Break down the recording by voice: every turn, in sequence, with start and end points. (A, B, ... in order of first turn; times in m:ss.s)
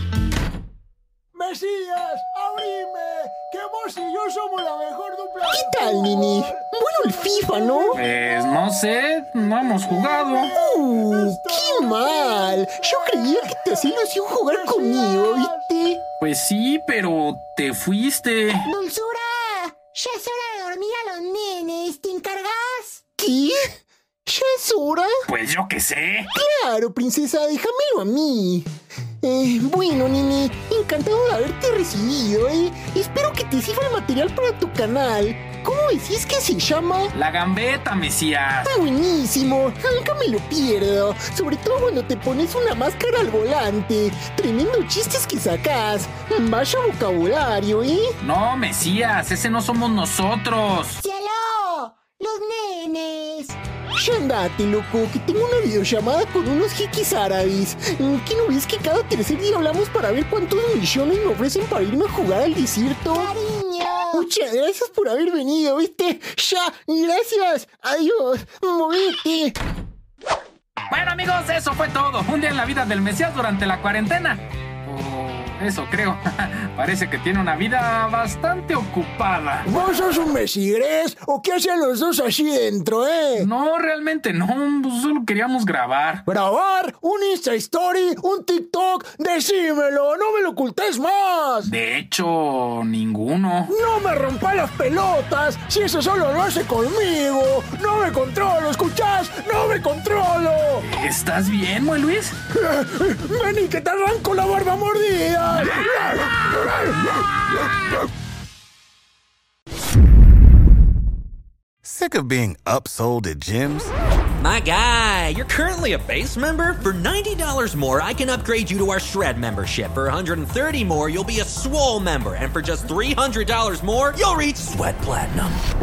0:01.3-0:06.5 A
0:05.5-0:08.0 B
0:07.2-0:08.0 A
0:07.9-0:10.5 C
0:09.8-0:13.8 A
0:10.6-0:16.0 B
0:14.4-0:15.7 A
0:16.2-0:18.7 C
0:18.6-0:23.0 D
0:23.2-0:23.6 B
0:24.2-0:25.1 B
0:25.3-0:26.3 C
0:26.3-0:28.7 B
0:29.2-0:37.1 B
0:37.1-0:38.7 C
0:38.6-0:48.1 B
0:48.2-0:51.0 C
0:51.0-0:53.6 D
0:54.0-1:03.3 B
1:03.1-1:04.3 D
1:04.1-1:09.6 B
1:10.9-1:19.9 C
1:19.6-1:23.5 A
1:23.4-1:26.2 C
1:26.3-1:31.7 A
1:31.6-1:33.7 C
1:33.7-1:40.9 A
1:40.9-1:42.3 C
1:42.5-1:46.4 A
1:51.8-1:53.9 E
1:54.4-2:05.6 F